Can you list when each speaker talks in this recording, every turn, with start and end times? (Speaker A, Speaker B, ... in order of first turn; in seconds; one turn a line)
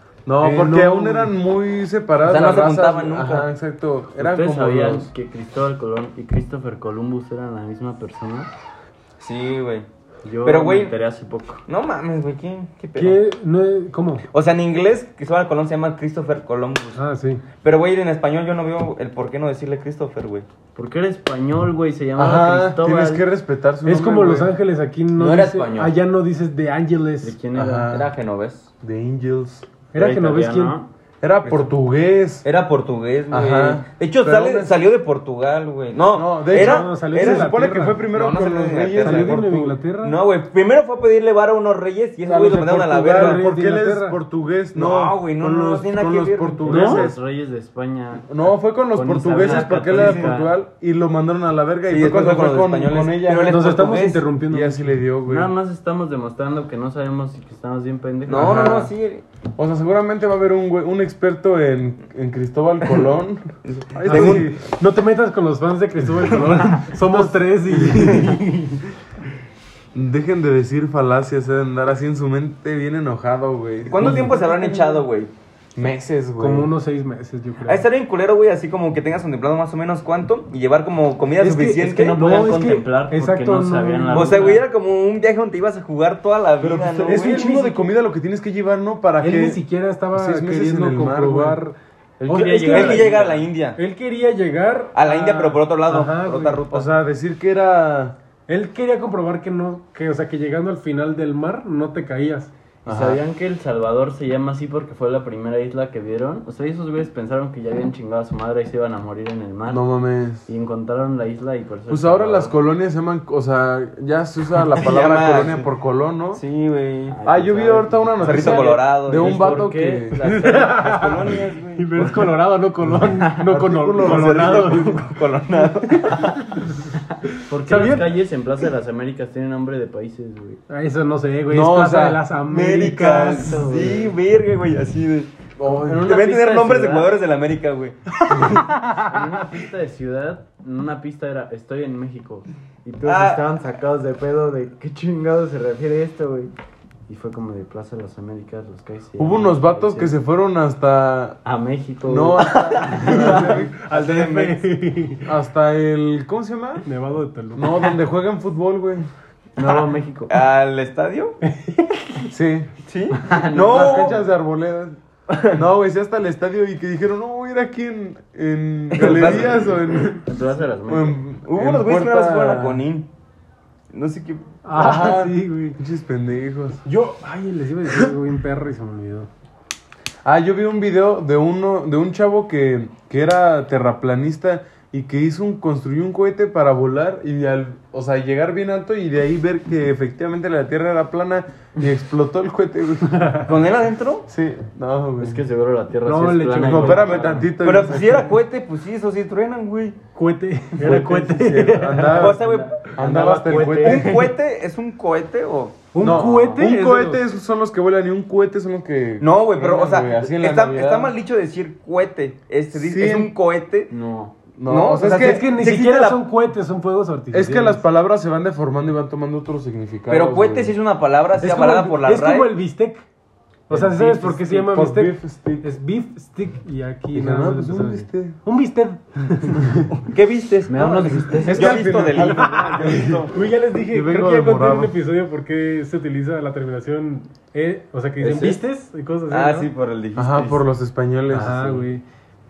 Speaker A: 0.2-5.1
Speaker B: 0.4-1.3
Speaker C: 2.2-3.5
Speaker D: 4.2-8.5
Speaker C: 9.2-9.9
Speaker D: 10.2-11.6
Speaker C: 10.4-10.9
Speaker C: 11.7-13.2
Speaker B: 12.9-14.2
Speaker C: 14.3-17.0
Speaker B: 16.9-17.4
Speaker C: 17.6-20.4
Speaker D: 20.7-23.2
Speaker A: 22.1-24.5
Speaker B: 23.8-27.4
Speaker D: 25.2-25.9
Speaker C: 25.4-25.9
Speaker D: 27.2-28.1
Speaker A: 27.5-28.1
Speaker C: 27.9-28.7
Speaker A: 28.8-29.7
Speaker B: 29.9-30.8
Speaker D: 29.9-30.9
Speaker A: 31.2-32.4
Speaker C: 31.4-31.7
Speaker C: 32.4-39.4
Speaker A: 33.3-34.7
Speaker A: 36.1-39.8
Speaker B: 36.5-38.0
Speaker B: 39.0-40.2
Speaker C: 40.0-43.4
Speaker A: 42.2-47.2
Speaker B: 43.1-44.2
Speaker C: 44.7-47.0
Speaker D: 46.6-50.5
Speaker B: 46.7-47.0
Speaker A: 48.3-53.6
Speaker C: 49.4-50.3
Speaker C: 51.9-54.3
Speaker B: 53.4-55.0
Speaker A: 54.5-55.5
Speaker D: 55.2-58.9
Speaker C: 58.3-59.2
Speaker A: 58.3-58.9
Speaker A: 59.6-64.6
Speaker C: 63.6-64.4
Speaker B: 64.0-68.8
Speaker A: 67.1-68.3
Speaker A: 69.9-74.3
Speaker C: 73.9-75.3
Speaker B: 74.0-75.0
Speaker A: 75.7-76.7
Speaker B: 76.4-77.8
Speaker C: 77.7-82.2
Speaker B: 81.4-84.6
Speaker D: 81.5-84.6
Speaker C: 84.1-87.5
Speaker A: 86.6-89.6
Speaker B: 87.0-87.9
Speaker B: 89.2-91.7
Speaker A: 90.1-91.6
Speaker D: 92.2-93.5
Speaker B: 92.2-93.1
Speaker C: 92.7-93.8
Speaker B: 93.8-96.6
Speaker C: 94.9-96.9
Speaker A: 96.7-98.2
Speaker B: 98.5-102.5
Speaker A: 102.8-103.2
Speaker D: 102.8-109.9
Speaker A: 109.7-110.5
Speaker D: 110.5-112.5
Speaker A: 111.9-116.4
Speaker C: 114.8-115.7
Speaker C: 116.3-117.2
Speaker D: 117.1-121.3
Speaker A: 117.2-120.2
Speaker C: 118.2-119.5
Speaker B: 120.2-125.1
Speaker C: 120.9-122.1
Speaker A: 123.4-124.8
Speaker C: 124.0-126.6
Speaker D: 127.4-130.6
Speaker B: 127.6-128.2
Speaker B: 130.7-133.7
Speaker A: 131.5-132.2
Speaker C: 132.5-135.3
Speaker D: 133.0-134.1
Speaker A: 135.6-136.1
Speaker D: 135.7-137.1
Speaker C: 135.8-138.6
Speaker D: 139.0-146.5
Speaker C: 143.0-143.5
Speaker D: 147.1-150.1
Speaker A: 149.2-151.4
Speaker D: 151.4-153.5
Speaker A: 152.1-153.7
Speaker C: 152.8-154.6
Speaker B: 153.1-155.3
Speaker A: 155.2-156.8
Speaker B: 156.8-157.7
Speaker A: 157.5-159.1
Speaker D: 159.6-160.3
Speaker C: 159.6-161.4
Speaker B: 161.4-162.2
Speaker A: 162.3-162.7
Speaker C: 162.8-164.2
Speaker D: 163.2-164.2
Speaker A: 163.6-170.2
Speaker C: 168.9-169.7
Speaker D: 169.0-171.2
Speaker A: 170.9-172.8
Speaker C: 171.5-173.1
Speaker C: 173.9-174.6
Speaker B: 174.6-175.8
Speaker A: 174.7-176.8
Speaker B: 176.8-179.3
Speaker A: 180.2-193.2
Speaker B: 193.1-193.5
Speaker C: 193.4-194.2
Speaker A: 194.3-195.4
Speaker D: 195.2-197.5
Speaker B: 196.0-197.5
Speaker A: 196.6-198.3
Speaker C: 197.6-200.0
Speaker B: 200.1-202.3
Speaker A: 200.8-202.4
Speaker C: 202.1-205.9
Speaker D: 202.2-204.2
Speaker A: 202.9-204.2
Speaker B: 203.2-204.3
Speaker B: 205.9-207.2
Speaker D: 206.0-206.7
Speaker A: 206.0-211.1
Speaker C: 209.2-213.9
Speaker A: 212.7-213.3
Speaker D: 213.9-214.3
Speaker A: 214.6-215.5
Speaker C: 214.6-216.2
Speaker B: 215.0-217.8
Speaker A: 217.3-220.7
Speaker C: 220.1-222.5
Speaker B: 221.4-223.0
Speaker B: 223.7-229.9
Speaker A: 223.7-225.8
Speaker A: 227.1-228.4
Speaker C: 229.9-233.3
Speaker D: 230.7-232.2
Speaker A: 231.4-233.3
Speaker B: 232.2-239.7
Speaker A: 233.9-234.9
Speaker C: 238.2-238.6
Speaker C: 239.3-240.6
Speaker A: 240.2-241.6
Speaker B: 241.3-242.0
Speaker D: 241.4-241.7